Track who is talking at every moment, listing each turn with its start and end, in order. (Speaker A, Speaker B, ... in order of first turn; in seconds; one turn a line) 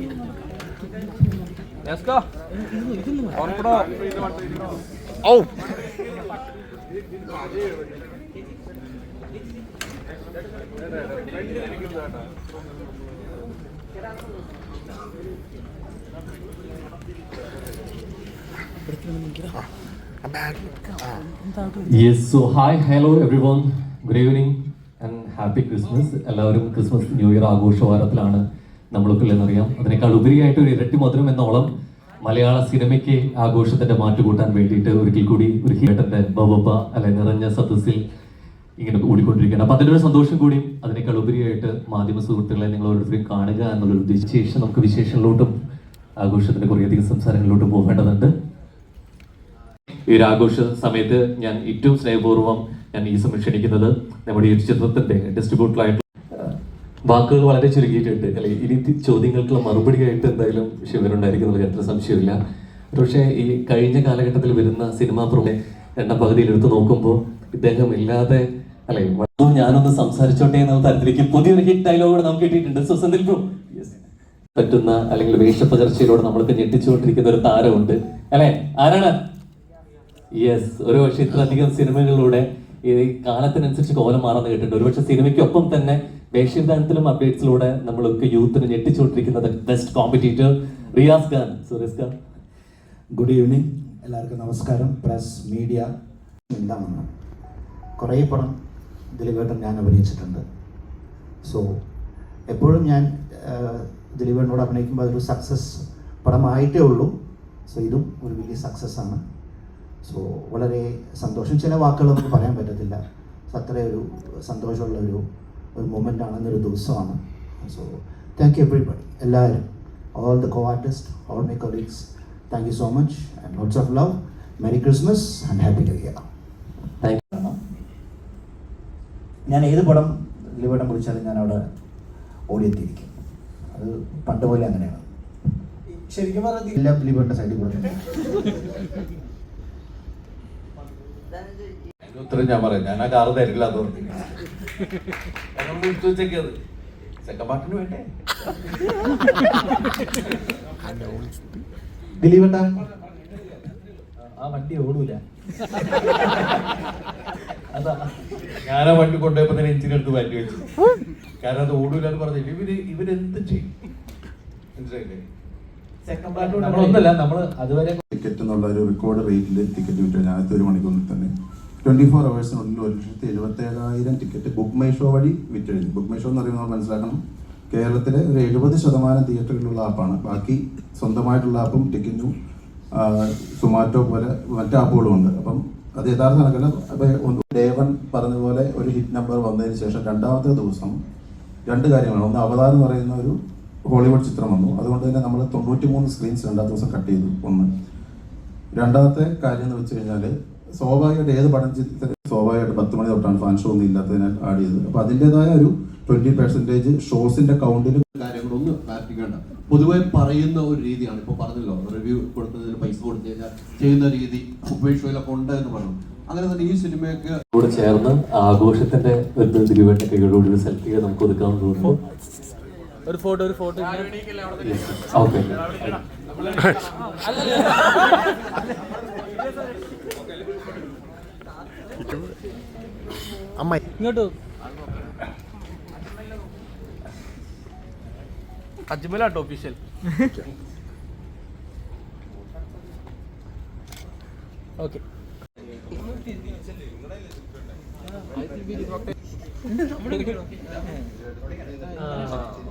Speaker A: 21.8-31.7
Speaker A: 32.2-38.0
Speaker A: 38.8-45.5
Speaker A: 46.2-48.3
Speaker A: 50.1-56.5
Speaker A: 57.1-62.4
Speaker A: 62.9-74.0
Speaker A: 74.5-79.1
Speaker A: 80.4-92.1
Speaker B: 93.2-95.9
Speaker B: 96.5-97.1
Speaker B: 98.0-98.5
Speaker B: 99.2-100.4
Speaker B: 102.5-107.1
Speaker B: 107.7-109.2
Speaker B: 110.0-115.2
Speaker B: 115.8-119.6
Speaker B: 120.2-126.2
Speaker B: 127.3-127.6
Speaker B: 129.5-131.6
Speaker B: 132.5-133.1
Speaker B: 133.7-135.1
Speaker B: 136.1-138.5
Speaker C: 142.1-144.1
Speaker C: 145.6-146.6
Speaker C: 147.2-148.1
Speaker C: 154.4-155.2
Speaker C: 158.7-160.6
Speaker C: 161.4-163.7
Speaker C: 164.8-165.2
Speaker C: 166.1-168.0
Speaker D: 166.6-167.1
Speaker E: 168.1-171.3
Speaker E: 171.8-182.3
Speaker E: 182.9-191.0
Speaker E: 191.7-193.4
Speaker E: 193.9-197.7
Speaker E: 198.8-208.1
Speaker F: 208.1-217.4
Speaker A: 217.5-222.0
Speaker D: 223.1-224.2
Speaker A: 224.6-226.0
Speaker D: 234.0-234.3
Speaker D: 239.2-239.6